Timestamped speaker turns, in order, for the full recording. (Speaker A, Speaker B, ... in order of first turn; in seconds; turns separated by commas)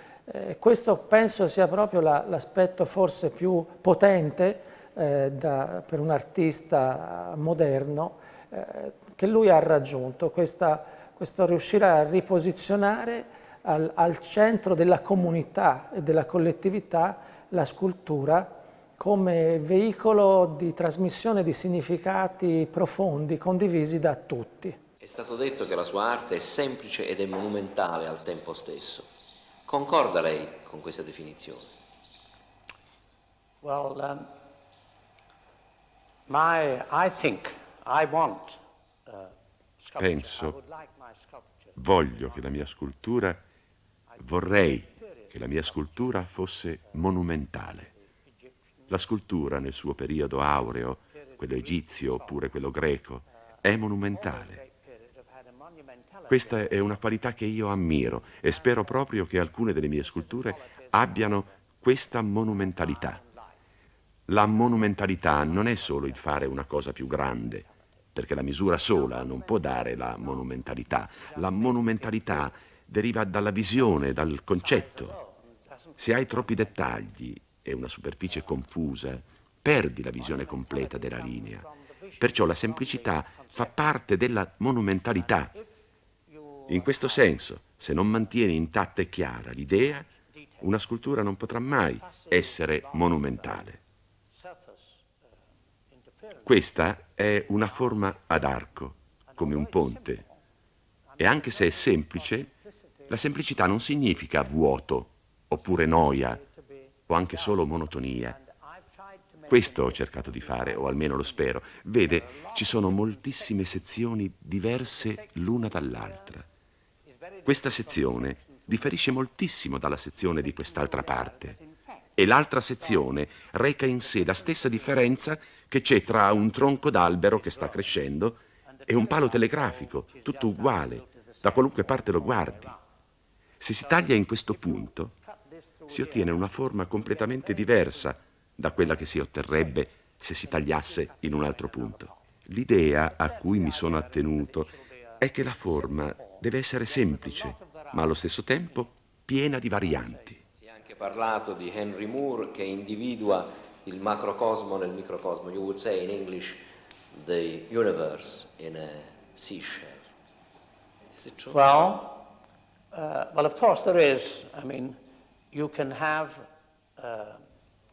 Speaker A: 0.3-24.8, Speaker B: 25.0-29.1, Speaker B: 29.6-31.7, Speaker C: 33.6-34.3, Speaker C: 36.3-41.8, Speaker D: 40.0-40.6, Speaker D: 41.8-43.4, Speaker D: 44.2-47.9, Speaker C: 44.9-45.3, Speaker D: 48.9-54.6, Speaker C: 54.5-57.0, Speaker D: 56.3-63.2, Speaker C: 58.4-58.8, Speaker C: 60.3-61.5, Speaker C: 62.8-63.5, Speaker D: 64.3-75.2, Speaker C: 65.2-66.3, Speaker C: 69.1-72.4, Speaker C: 74.6-77.0, Speaker D: 76.0-81.7, Speaker C: 80.3-83.9, Speaker D: 82.2-85.5, Speaker C: 86.3-87.6, Speaker D: 86.7-90.1, Speaker C: 90.1-90.8, Speaker D: 90.6-93.8, Speaker C: 91.8-93.7, Speaker C: 94.3-95.0, Speaker C: 95.9-96.6, Speaker D: 96.4-100.2, Speaker C: 97.5-98.2, Speaker C: 99.3-100.4, Speaker C: 101.1-103.7, Speaker D: 101.2-102.5, Speaker D: 103.1-106.4, Speaker C: 106.2-113.7, Speaker D: 107.1-108.4, Speaker D: 109.5-116.5, Speaker C: 115.1-116.3, Speaker C: 117.0-119.2, Speaker D: 117.4-121.6, Speaker C: 120.4-122.1, Speaker D: 122.2-132.7, Speaker C: 124.5-125.2, Speaker C: 128.7-132.8, Speaker D: 133.6-135.1, Speaker C: 134.0-138.2, Speaker D: 135.9-150.4, Speaker C: 140.5-142.2, Speaker C: 143.0-148.6, Speaker B: 150.6-156.6, Speaker B: 157.1-160.0, Speaker C: 161.2-162.3, Speaker C: 162.9-165.0, Speaker C: 165.5-166.4, Speaker C: 167.0-167.4